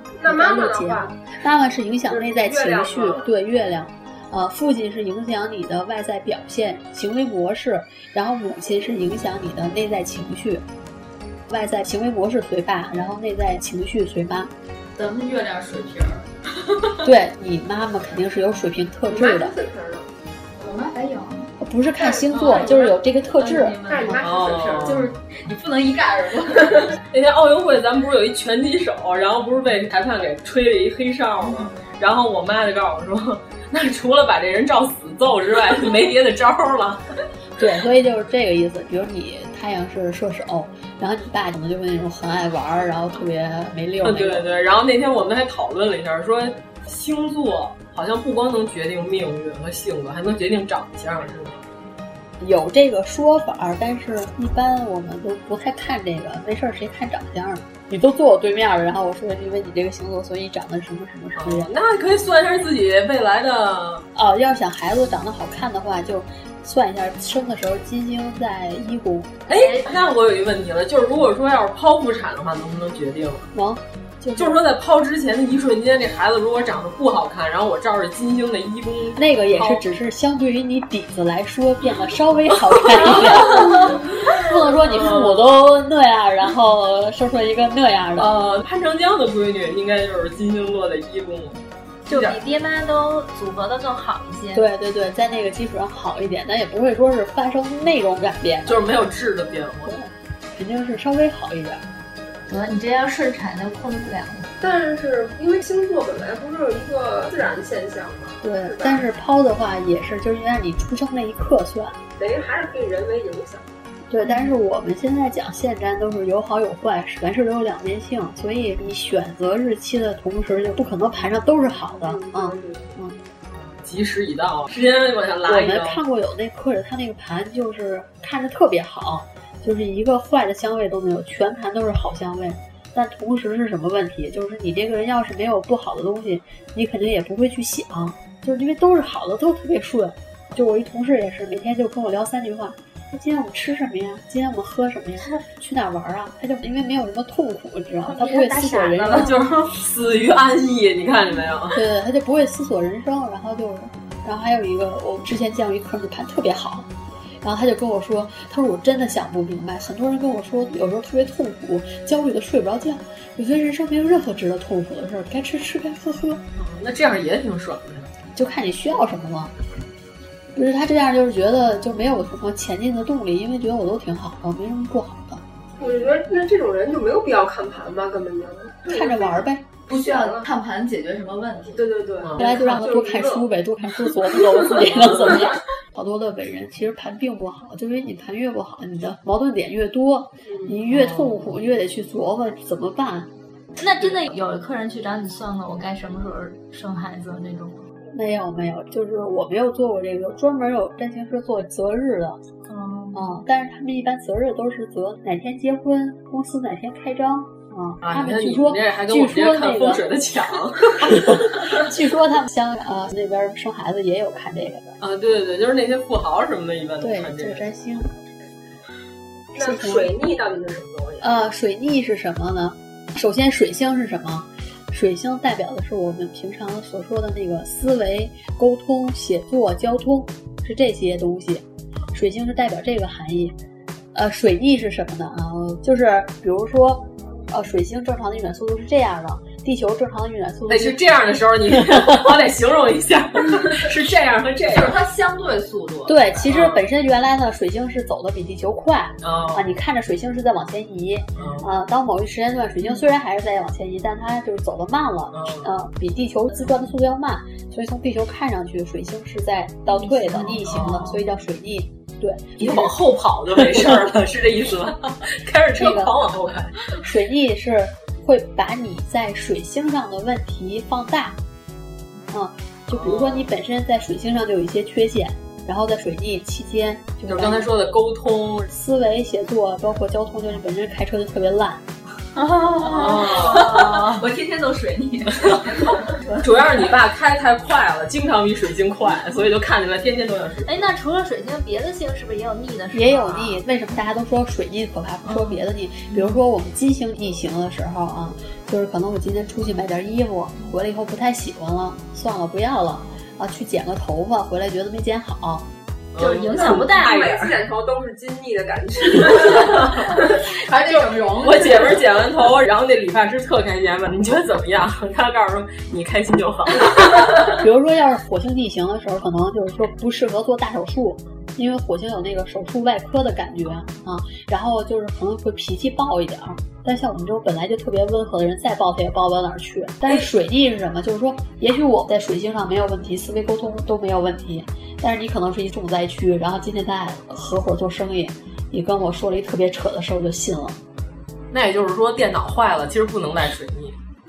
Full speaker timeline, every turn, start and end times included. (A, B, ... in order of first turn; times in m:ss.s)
0:00.2-0:01.1 A
0:00.2-0:10.6 B
0:02.1-0:03.3 A
0:11.5-0:14.5 B
0:15.0-0:16.2 C
0:17.0-0:19.5 B
0:19.1-0:20.1 A
0:20.6-0:21.4 C
0:21.6-0:23.8 B
0:22.0-0:22.8 A
0:22.3-0:26.9 C
0:23.8-0:25.0 A
0:24.2-0:25.1 D
0:27.1-0:37.0 D
0:37.6-0:44.4 B
0:44.0-0:51.6 D
0:52.4-1:01.7 B
1:01.4-1:04.0 D
1:04.1-1:09.4 B
1:09.5-1:13.5 D
1:09.5-1:09.8 E
1:13.5-1:14.6 B
1:14.4-1:19.8 D
1:19.2-1:28.3 B
1:23.1-1:23.5 D
1:24.9-1:25.4 D
1:28.2-1:32.4 D
1:32.1-1:34.6 E
1:34.5-1:38.8 B
1:38.6-1:39.9 D
1:39.8-1:41.8 B
1:42.5-1:44.5 E
1:44.6-1:49.1 A
1:48.4-1:52.0 B
1:52.2-1:53.6 A
1:54.1-2:03.2 B
2:02.0-2:02.9 A
2:03.5-2:06.0 D
2:05.4-2:29.4 B
2:28.1-2:29.2 E
2:29.1-2:31.8 D
2:31.7-2:36.9 B
2:37.4-2:46.4 B
2:46.6-2:48.1 D
2:48.3-2:49.5 B
2:50.5-2:55.4 B
2:55.8-3:00.4 A
2:58.9-2:59.8 B
2:59.9-3:01.8 C
3:01.7-3:03.5 A
3:02.2-3:02.5 D
3:02.4-3:13.3 B
3:10.9-3:11.4 D
3:13.8-3:17.9 E
3:18.1-3:22.4 B
3:22.7-3:23.2 E
3:23.1-3:30.1 B
3:28.0-3:31.6 D
3:31.1-3:35.0 B
3:35.0-3:37.6 D
3:37.0-3:38.1 B
3:39.6-3:40.1 B
3:39.6-3:41.3 A
3:41.2-3:53.6 B
3:54.1-4:01.0 B
4:00.7-4:04.9 D
4:04.7-4:06.4 C
4:06.0-4:22.9 B
4:06.4-4:06.8 D
4:09.2-4:09.7 D
4:11.4-4:11.7 D
4:15.3-4:15.7 D
4:20.4-4:21.2 D
4:22.6-4:26.8 D
4:25.8-4:26.3 B
4:26.9-4:31.4 B
4:32.3-4:37.7 B
4:32.9-4:33.5 D
4:37.3-4:38.7 D
4:38.7-4:41.8 B
4:42.8-4:44.0 E
4:42.8-4:46.9 C
4:42.9-4:44.0 D
4:46.4-4:50.9 D
4:50.7-4:53.6 E
4:52.9-5:05.7 B
5:06.1-5:07.5 D
5:06.2-5:06.8 C
5:06.4-5:07.0 E
5:07.0-5:09.6 A
5:09.3-5:10.2 D
5:10.5-5:12.0 C
5:10.7-5:17.3 D
5:17.6-5:40.8 B
5:41.5-5:44.0 D